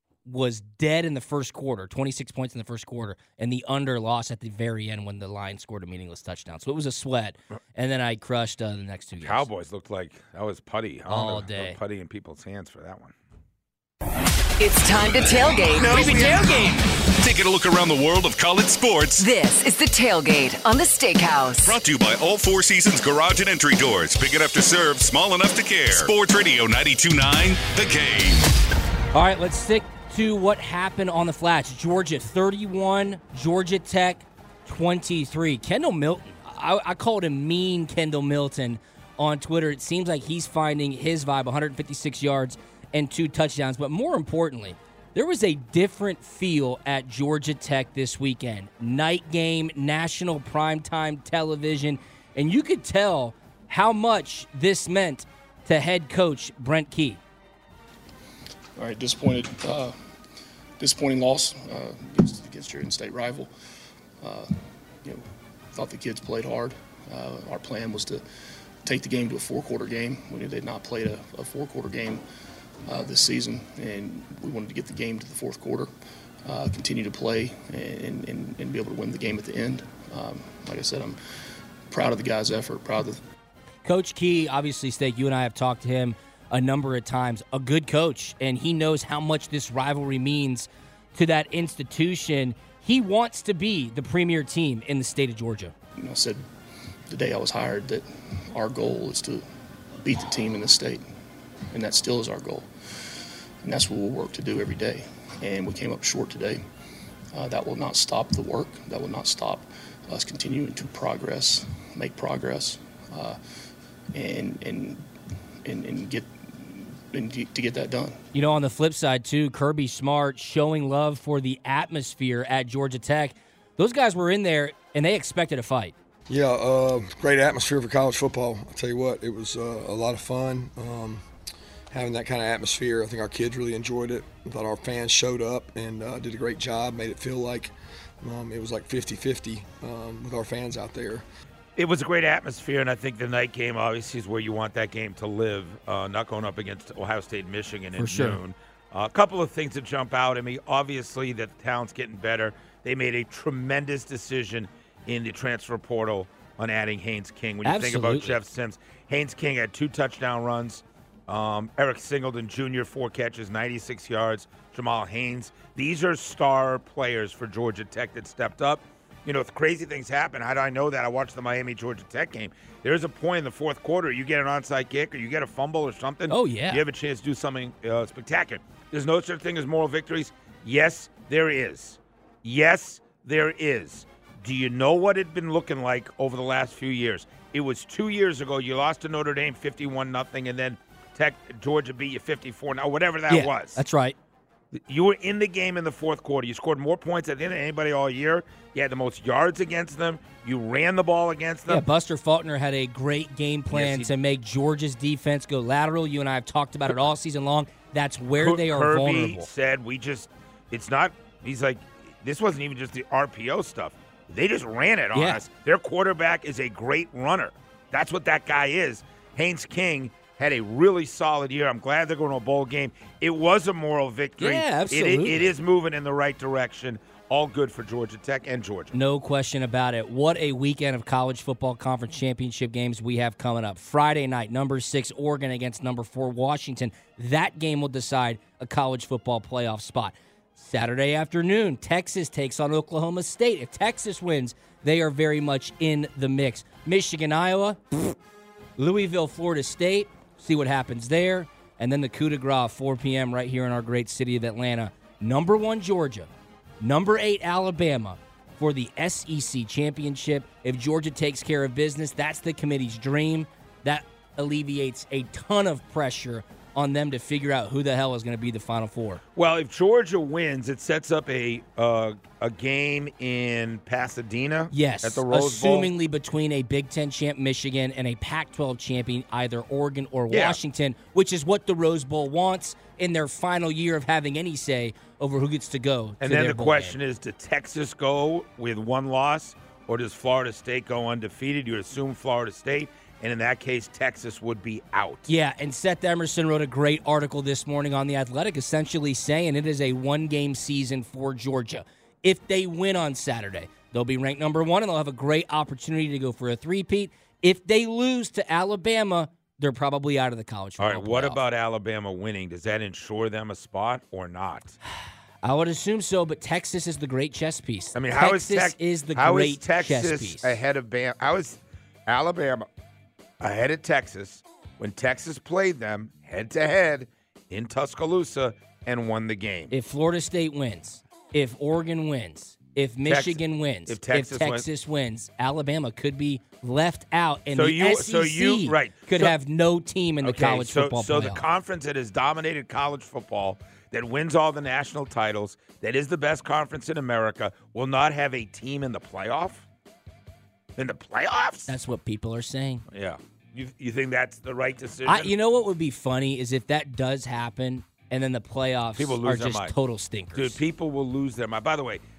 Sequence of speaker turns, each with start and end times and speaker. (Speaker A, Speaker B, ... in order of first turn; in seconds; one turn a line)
Speaker A: 0.3-9.5
Speaker B: 9.2-13.2
Speaker A: 11.1-11.8
Speaker C: 14.6-16.7
Speaker D: 15.8-19.3
Speaker A: 15.9-16.3
Speaker C: 19.2-21.8
Speaker D: 21.6-28.5
Speaker A: 29.1-57.2
Speaker E: 58.8-60.0
Speaker E: 60.8-63.5
Speaker E: 64.2-68.2
Speaker E: 68.8-72.2
Speaker E: 72.9-75.9
Speaker E: 76.5-81.2
Speaker E: 81.9-83.2
Speaker A: 83.8-95.7
Speaker E: 96.0-96.4
Speaker E: 97.1-99.5
Speaker E: 100.0-101.0
Speaker E: 101.7-106.6
Speaker E: 107.3-113.4
Speaker E: 114.1-115.1
Speaker E: 115.6-118.2
Speaker A: 118.3-126.0
Speaker F: 126.3-131.2
Speaker F: 131.9-141.2
Speaker B: 141.8-193.8
Speaker A: 148.0-148.4
Speaker A: 157.6-158.4
Speaker A: 176.3-176.8
Speaker A: 193.3-194.2
Speaker B: 194.7-201.9
Speaker A: 201.7-209.5
Speaker B: 203.7-204.1
Speaker B: 208.4-229.0
Speaker A: 215.1-215.4
Speaker A: 224.4-225.5
Speaker A: 228.9-248.2
Speaker A: 248.8-256.3
Speaker A: 256.8-269.2
Speaker B: 269.4-275.9
Speaker A: 274.7-287.0
Speaker B: 280.3-280.6
Speaker B: 286.2-295.3
Speaker A: 295.3-311.4
Speaker B: 310.8-314.8
Speaker A: 315.4-320.6
Speaker B: 317.9-322.7
Speaker B: 323.4-329.7
Speaker A: 329.7-341.4
Speaker B: 333.1-334.7
Speaker B: 337.5-339.4
Speaker B: 340.2-349.7
Speaker B: 350.8-351.8
Speaker A: 351.7-352.8
Speaker B: 352.9-355.3
Speaker A: 355.1-360.6
Speaker B: 359.0-359.7
Speaker B: 360.4-362.0